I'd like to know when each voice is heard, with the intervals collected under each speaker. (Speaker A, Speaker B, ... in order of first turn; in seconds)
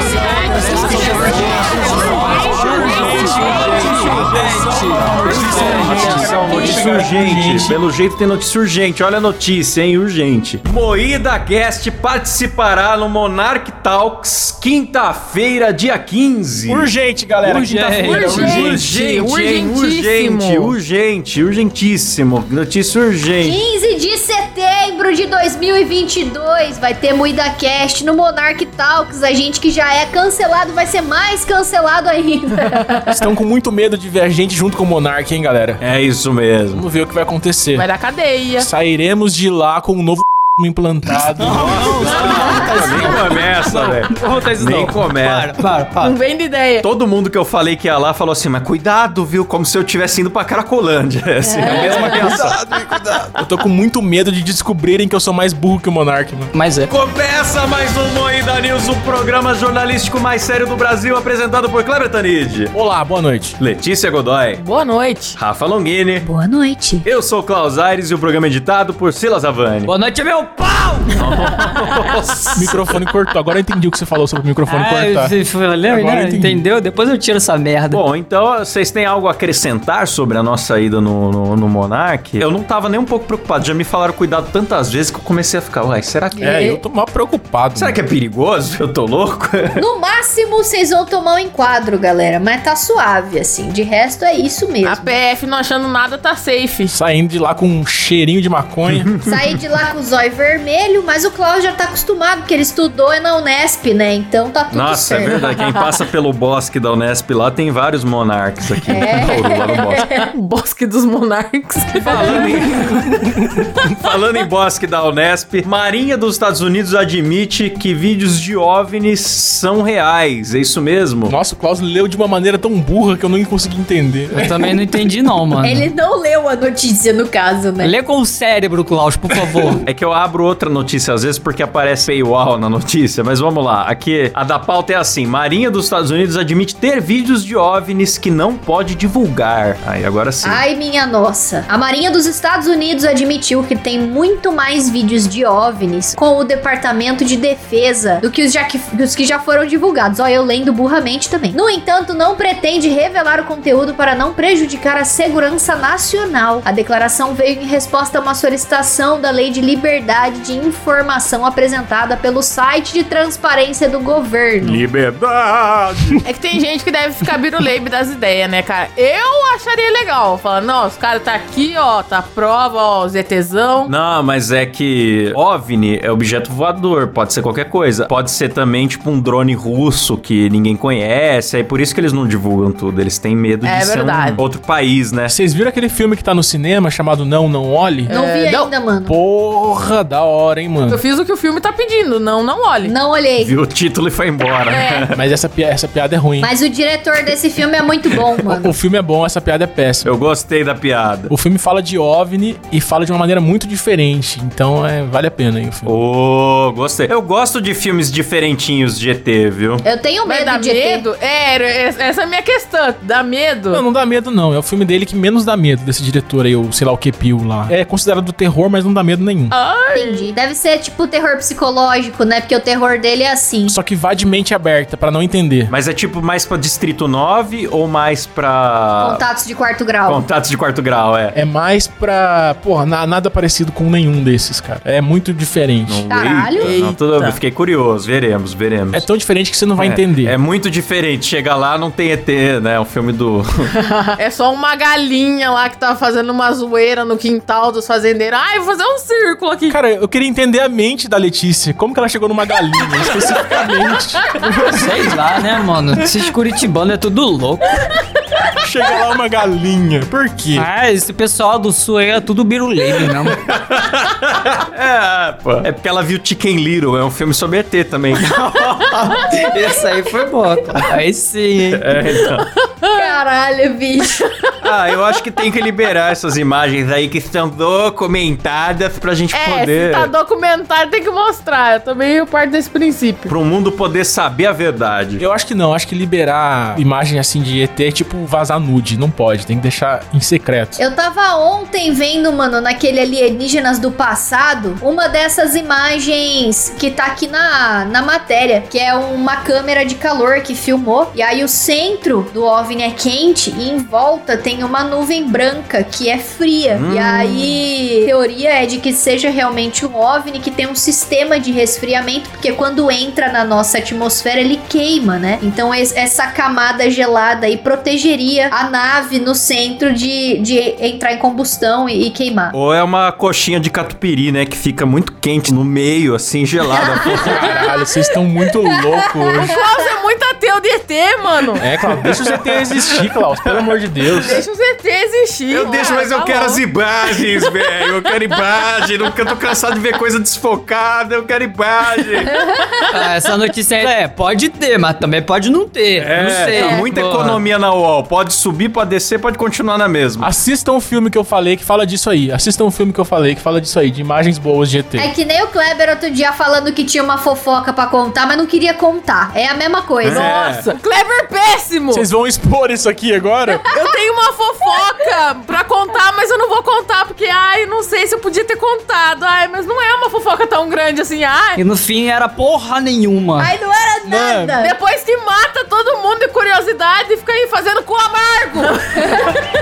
Speaker A: 0.8-4.4, 5.1-16.9, 18.4-23.6, 35.8-36.9, 41.4-45.5, 46.8-53.3, 56.9-62.7, 63.6-64.6, 65.4-66.3, 67.0-69.9, 71.2-72.9, 77.9-86.6, 87.8-89.8, 98.9-99.6, 104.7-110.1, 112.0-121.3, 129.8-140.6, 164.6-166.2, 173.8-185.3, 193.4-195.2, 200.0-201.3, 205.9-209.8, 225.7-229.2, 230.1-231.4, 235.9-239.1, 239.8-243.7, 263.3-269.2, 271.7-272.5, 274.6-280.1, 283.3-285.2, 306.7-307.5, 322.5-327.6, 331.8-333.6, 335.5-342.4, 345.9-350.3, 360.0-360.7
Speaker B: 2.7-4.5, 5.0-7.8, 16.7-18.8, 33.1-35.8, 36.7-37.9, 38.6-42.3, 53.4-56.5, 62.7-63.6, 72.6-75.3, 75.9-76.6, 86.4-88.0, 96.9-99.1, 121.3-124.7, 185.3-188.1, 189.1-191.0, 195.2-196.5, 198.5-200.1, 201.3-206.0, 213.7-219.5, 223.7-225.7, 231.3-236.1, 238.9-240.4, 249.7-254.9, 258.6-260.7, 285.2-290.8, 327.0-329.6, 331.6-334.4, 350.2-355.1, 361.9-363.7, 374.1-374.6
Speaker C: 3.0-5.6, 17.4-18.6, 41.4-46.2, 51.6-52.4, 56.5-56.9, 69.9-71.5, 74.7-78.0, 124.3-125.9, 127.8-129.8, 254.7-257.7, 260.6-263.4, 269.2-271.9, 342.9-347.4, 371.6-373.5
Speaker D: 18.1-20.8, 37.7-38.7, 46.0-46.9, 51.5-53.0, 64.6-65.4, 94.8-97.0, 108.9-112.4, 166.3-173.9, 183.6-184.4, 188.1-188.7, 190.9-192.9, 194.7-195.0, 210.3-213.8, 219.5-220.3, 236.6-237.4, 243.9-249.8, 272.8-273.2, 274.1-274.5, 279.3-283.3, 329.4-331.6, 334.3-336.6, 337.1-338.1, 342.3-342.9, 360.1-362.1, 363.7-371.6, 374.6-379.2
Speaker E: 23.4-33.1, 66.2-67.1, 86.4-86.8, 89.8-95.1, 99.2-105.4, 108.9-110.2, 125.6-127.9, 140.4-164.8, 188.1-189.2, 192.8-193.6, 196.4-198.7, 209.8-211.1, 219.9-223.8, 229.0-230.2, 236.1-236.8, 272.9-274.2, 290.8-322.6, 326.7-327.8, 355.0-360.3, 373.4-374.8